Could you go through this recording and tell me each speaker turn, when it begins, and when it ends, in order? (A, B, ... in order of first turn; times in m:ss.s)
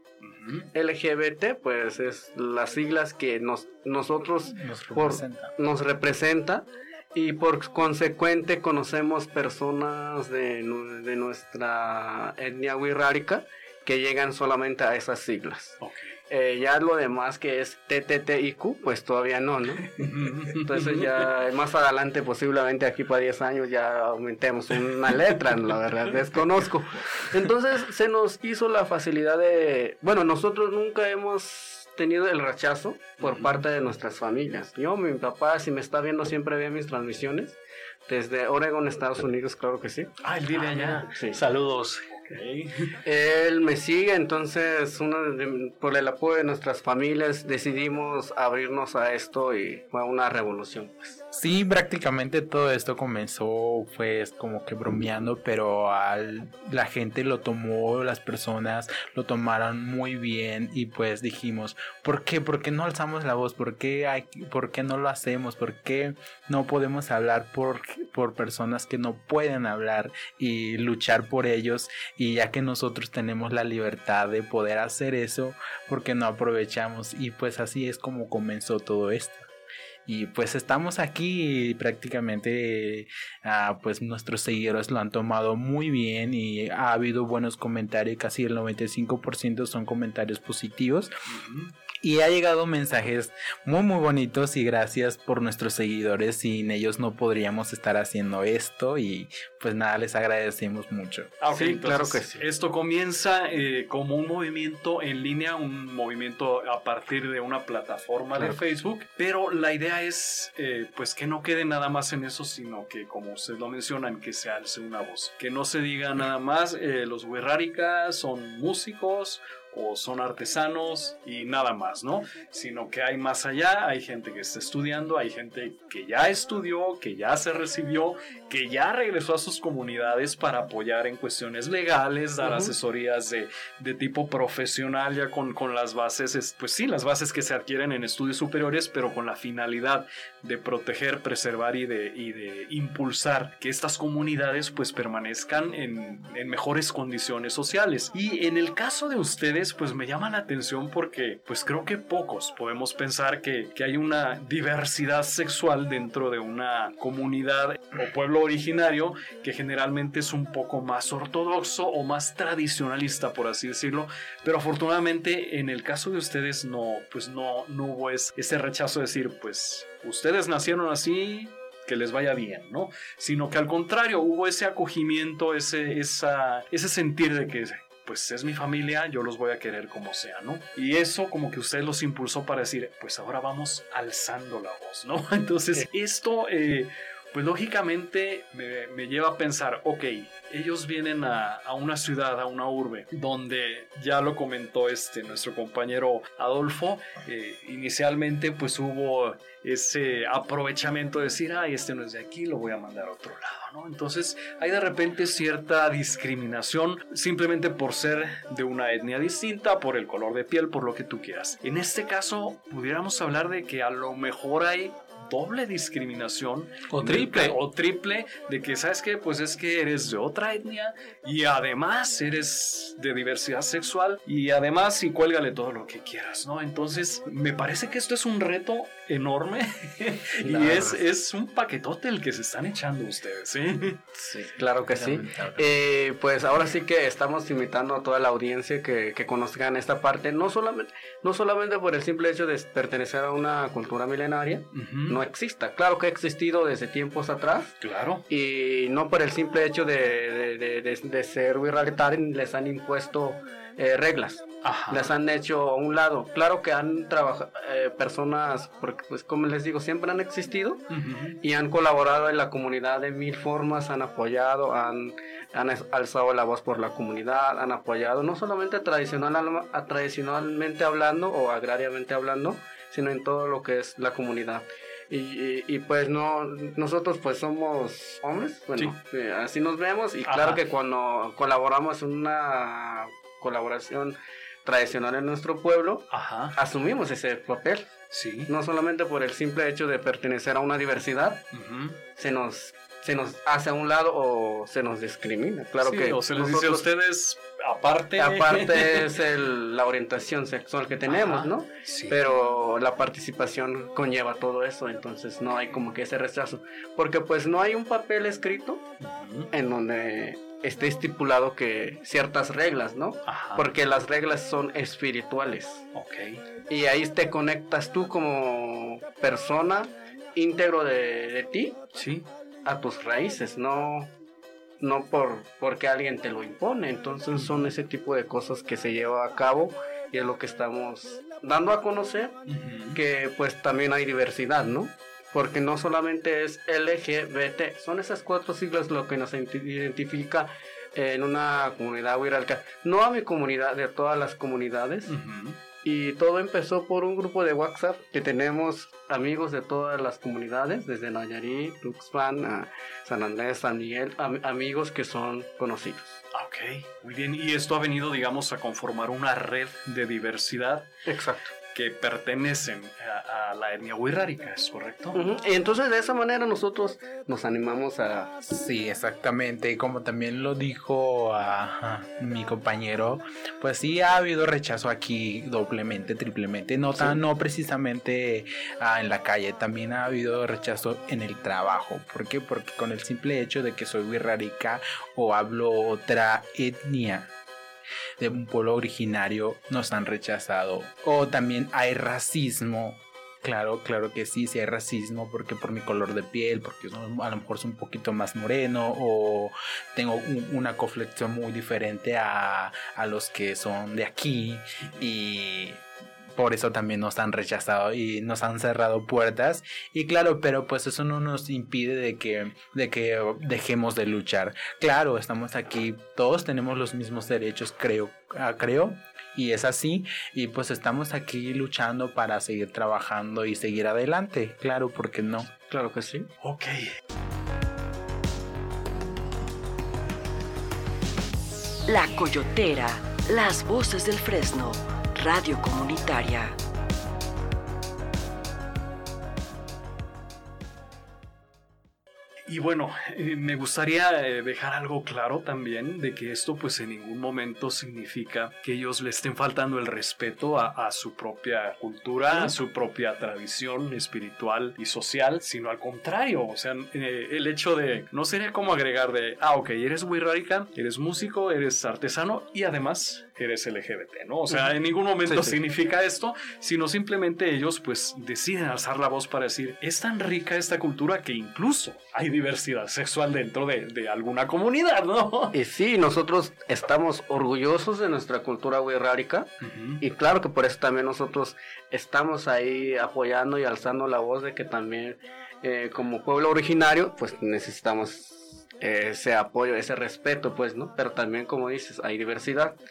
0:00.2-0:00.7 A
0:00.7-0:15.8 B
0:04.5-0:05.5 C
0:15.8-0:16.1 A
0:16.3-0:40.1 B
0:20.0-0:21.3 A
0:33.2-0:33.6 A
0:40.2-0:41.1 A
0:40.7-0:42.1 D
0:41.0-0:41.4 B
0:42.1-0:42.9 A
0:43.0-0:51.2 B
0:51.3-1:19.5 C
1:20.1-1:31.1 C
1:31.3-1:31.7 A
1:32.0-1:41.3 C
1:41.4-3:54.1 A
1:41.5-1:42.4 B
2:12.4-2:12.7 B
3:36.9-3:37.6 D
3:50.4-3:51.0 B
3:54.2-4:07.8 B
3:54.9-3:55.7 C
4:04.7-4:05.2 A
4:07.8-4:08.2 A
4:08.3-4:20.8 B
4:14.6-4:15.1 A
4:20.9-4:21.4 A
4:21.4-4:48.0 B
4:40.3-4:40.6 A
4:46.1-4:46.6 A
4:48.1-4:48.5 A
4:48.5-4:51.4 B
4:51.5-4:52.0 A
4:52.2-4:56.9 B
4:55.8-4:59.1 A
4:58.2-5:08.8 B
5:01.1-5:02.2 A
5:09.0-5:09.5 A
5:09.5-5:15.8 B
5:13.3-5:13.7 A
5:15.9-5:16.4 A
5:16.7-5:21.8 B
5:22.0-5:22.3 A
5:22.6-5:24.1 B
5:24.8-5:32.4 B
5:27.4-5:27.6 A
5:32.5-5:33.0 A
5:32.9-5:45.1 B
5:45.1-5:45.6 A
5:45.8-5:56.2 B
5:56.3-6:00.9 A
6:01.1-6:01.5 B
6:01.7-6:05.2 A
6:05.1-6:08.4 B
6:08.4-6:27.3 C
6:28.2-6:45.8 C
6:46.4-7:05.5 C
7:05.7-7:06.3 B
7:06.4-7:06.9 A
7:11.9-7:16.6 E
7:22.5-7:55.6 A
7:45.3-7:45.6 B
7:55.5-8:12.8 B
7:59.6-8:00.0 A